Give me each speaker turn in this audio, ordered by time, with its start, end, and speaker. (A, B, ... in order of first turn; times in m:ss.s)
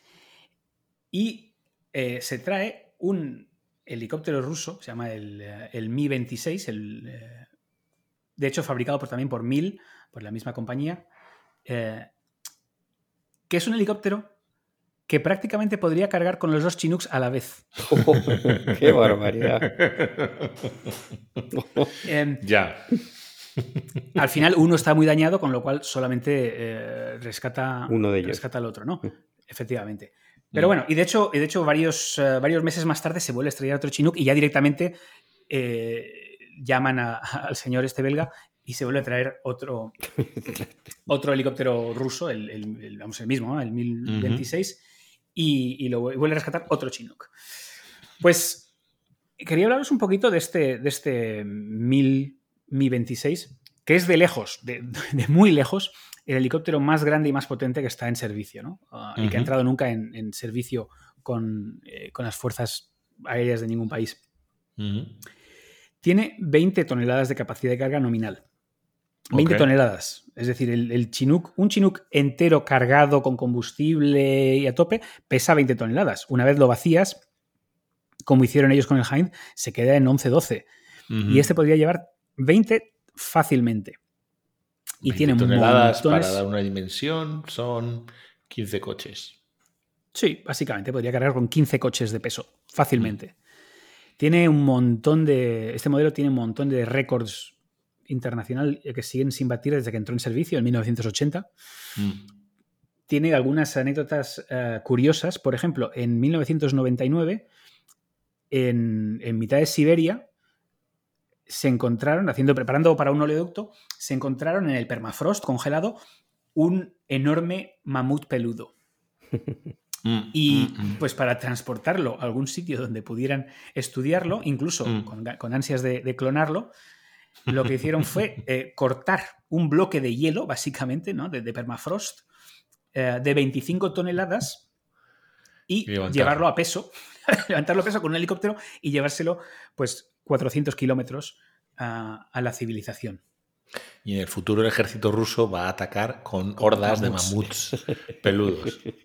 0:01.1-0:07.5 A
0:08.4-0:11.0 A
0:11.6-0:12.1 A
0:13.5-0:14.3 A
0:15.1-0:17.7 A
0:17.9-0:19.7 B
0:18.3-0:18.8 C
0:19.6-0:20.7 C
0:21.6-0:21.8 B
0:22.0-0:22.4 A
0:22.4-0:23.6 C
0:24.1-0:35.0 A
0:27.9-0:28.4 B
0:35.5-0:39.9 A
0:41.1-0:44.8 A
0:44.1-0:44.4 C
0:45.3-0:47.3 A
0:48.2-0:48.7 A
0:49.4-1:04.2 A
0:59.2-0:59.5 C
1:04.8-1:05.2 C
1:06.0-1:08.4 A
1:09.3-1:17.2 A
1:09.3-1:09.7 C
1:18.2-1:20.7 A
1:21.1-1:21.5 C
1:21.3-1:24.0 A
1:25.0-1:26.4 A
1:25.0-1:29.4 C
1:30.1-1:33.3 A
1:34.2-1:37.6 A
1:38.1-1:41.5 A
1:42.0-1:42.2 C
1:43.1-1:47.4 A
1:48.5-1:50.3 A
1:51.5-1:56.0 A
1:56.5-1:58.7 A
2:00.0-2:01.0 C
2:00.3-2:06.7 A
2:07.5-2:12.2 A
2:12.9-2:14.6 A
2:15.7-2:23.2 A
2:15.9-2:16.4 C
2:24.0-2:28.8 C
2:26.6-2:27.5 A